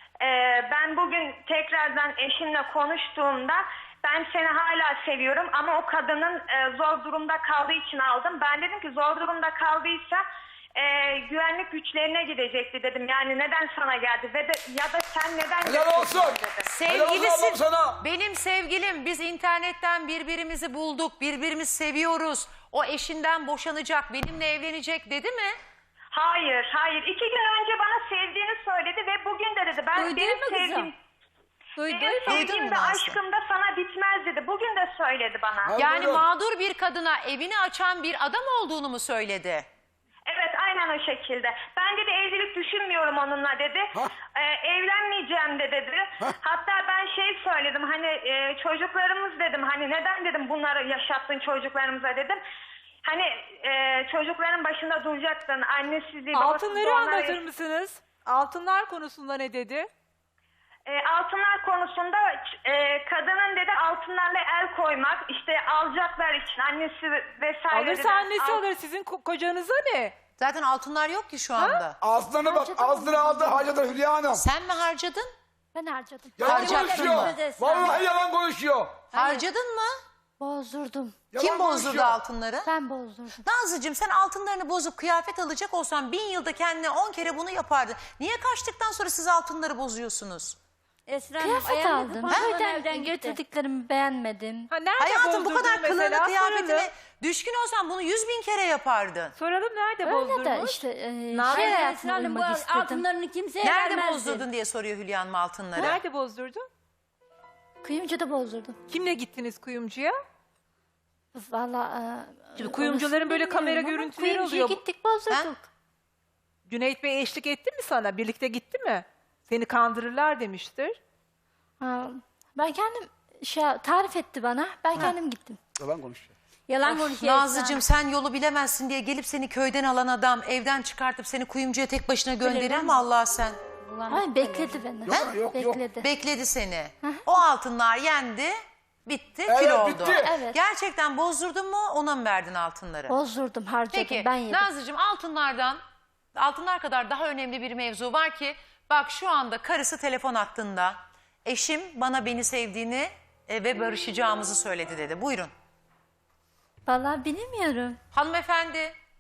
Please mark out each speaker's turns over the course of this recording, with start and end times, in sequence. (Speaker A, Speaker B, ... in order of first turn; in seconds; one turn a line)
Speaker A: 0.2-10.2
Speaker A: 10.8-16.7
Speaker B: 15.6-18.0
Speaker C: 16.7-25.6
Speaker A: 26.1-30.9
Speaker D: 30.0-30.9
Speaker E: 31.8-32.4
Speaker A: 31.9-35.8
Speaker C: 32.3-33.2
Speaker B: 35.6-36.3
Speaker C: 35.8-39.7
Speaker A: 40.3-52.4
Speaker A: 53.0-57.4
Speaker E: 56.3-59.9
Speaker A: 60.9-68.6
Speaker E: 67.7-70.2
Speaker C: 70.4-72.0
Speaker E: 71.6-71.8
Speaker B: 72.0-74.4
Speaker F: 72.4-73.8
Speaker C: 74.3-75.3
Speaker F: 75.7-76.6
Speaker B: 76.4-79.1
Speaker C: 76.4-77.3
Speaker D: 76.5-78.0
Speaker C: 79.1-79.9
Speaker F: 80.4-81.2
Speaker B: 81.3-82.2
Speaker C: 81.4-82.7
Speaker F: 82.7-83.4
Speaker C: 83.4-90.6
Speaker D: 91.1-93.4
Speaker F: 91.4-94.7
Speaker E: 94.7-96.9
Speaker C: 95.0-99.3
Speaker E: 99.4-100.8
Speaker F: 100.0-103.0
Speaker D: 101.3-104.5
Speaker E: 101.3-101.8
Speaker C: 103.6-106.0
Speaker E: 105.8-106.7
Speaker F: 107.8-108.8
Speaker E: 108.9-110.1
Speaker F: 111.3-115.7
Speaker E: 112.6-114.8
Speaker C: 115.3-115.5
Speaker E: 116.7-121.0
Speaker F: 121.8-125.6
Speaker B: 125.8-126.3
Speaker D: 126.7-127.9
Speaker C: 126.8-133.6
Speaker D: 132.4-133.0
Speaker D: 133.8-134.9
Speaker F: 134.1-136.1
Speaker B: 135.1-135.8
Speaker C: 136.0-143.2
Speaker B: 139.5-140.3
Speaker F: 140.2-140.6
Speaker F: 143.1-144.7
Speaker C: 143.9-145.8
Speaker C: 146.4-155.5
Speaker F: 156.9-158.0
Speaker C: 158.1-158.9